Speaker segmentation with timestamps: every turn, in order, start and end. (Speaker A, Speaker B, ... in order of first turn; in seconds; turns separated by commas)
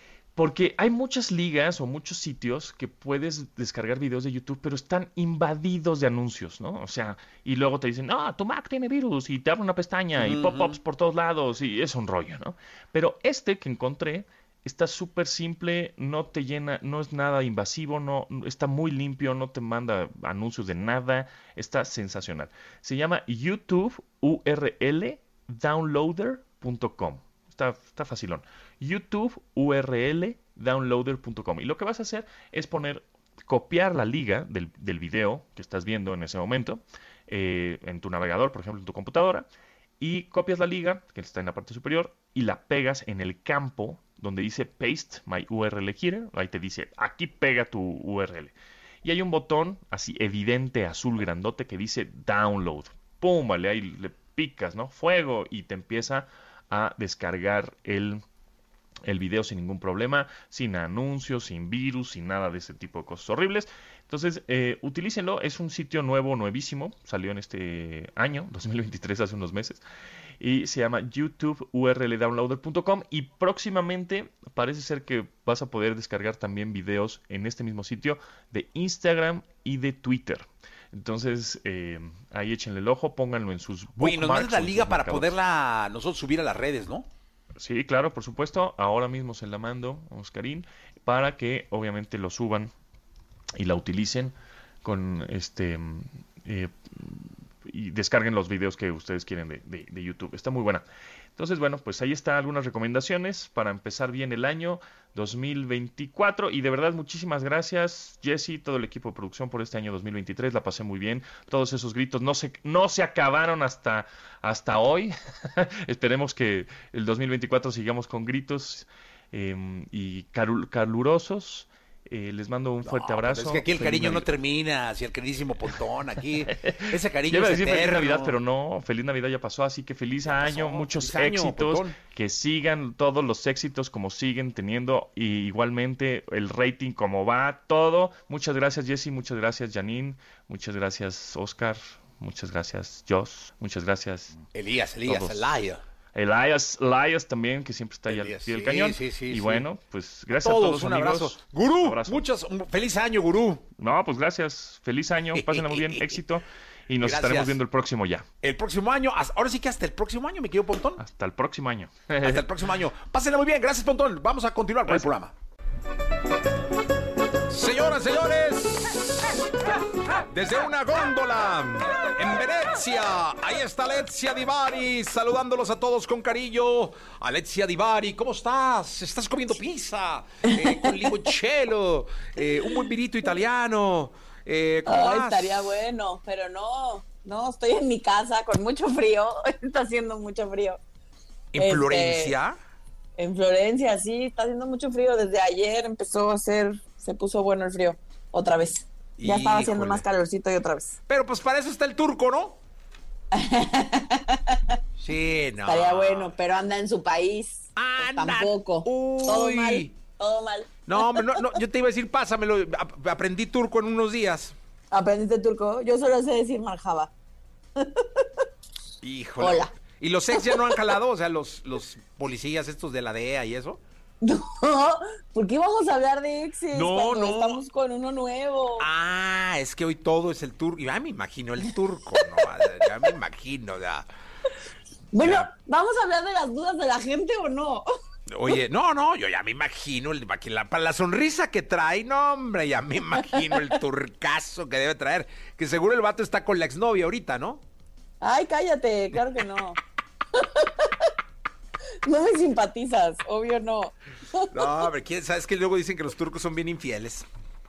Speaker A: 0.3-39.5, Speaker B: 10.2-10.8, Speaker A: 40.0-58.2, Speaker A: 59.0-69.8, Speaker A: 70.4-85.3, Speaker B: 84.0-87.1, Speaker A: 87.6-92.7, Speaker A: 93.6-100.8, Speaker A: 101.3-124.3, Speaker B: 122.8-128.3, Speaker A: 126.6-144.4, Speaker B: 130.3-131.9, Speaker B: 144.5-145.8, Speaker A: 145.0-145.4, Speaker A: 146.1-152.2, Speaker B: 148.1-149.6, Speaker B: 150.3-153.6, Speaker A: 153.8-158.3, Speaker B: 155.3-156.2, Speaker B: 157.0-157.6, Speaker B: 158.4-161.0, Speaker A: 161.0-162.4, Speaker B: 162.2-165.3, Speaker B: 167.5-169.0, Speaker B: 170.2-185.7, Speaker C: 180.5-181.0, Speaker C: 184.8-190.8, Speaker B: 191.5-192.6, Speaker C: 191.6-192.3, Speaker C: 193.2-201.0, Speaker B: 199.2-200.0, Speaker B: 201.1-202.6, Speaker C: 203.3-204.6, Speaker B: 205.0-206.3, Speaker C: 205.7-211.5, Speaker B: 207.8-209.9, Speaker B: 210.9-214.5, Speaker C: 214.9-217.1, Speaker C: 217.8-218.2, Speaker B: 219.0-223.8, Speaker C: 219.4-219.7, Speaker C: 220.3-220.8, Speaker C: 224.2-228.8, Speaker B: 226.7-227.6, Speaker B: 228.8-234.1, Speaker C: 235.1-237.8, Speaker B: 235.2-235.5, Speaker B: 238.3-247.6, Speaker C: 248.2-249.8, Speaker C: 250.3-250.9, Speaker C: 252.1-254.9, Speaker B: 254.5-257.2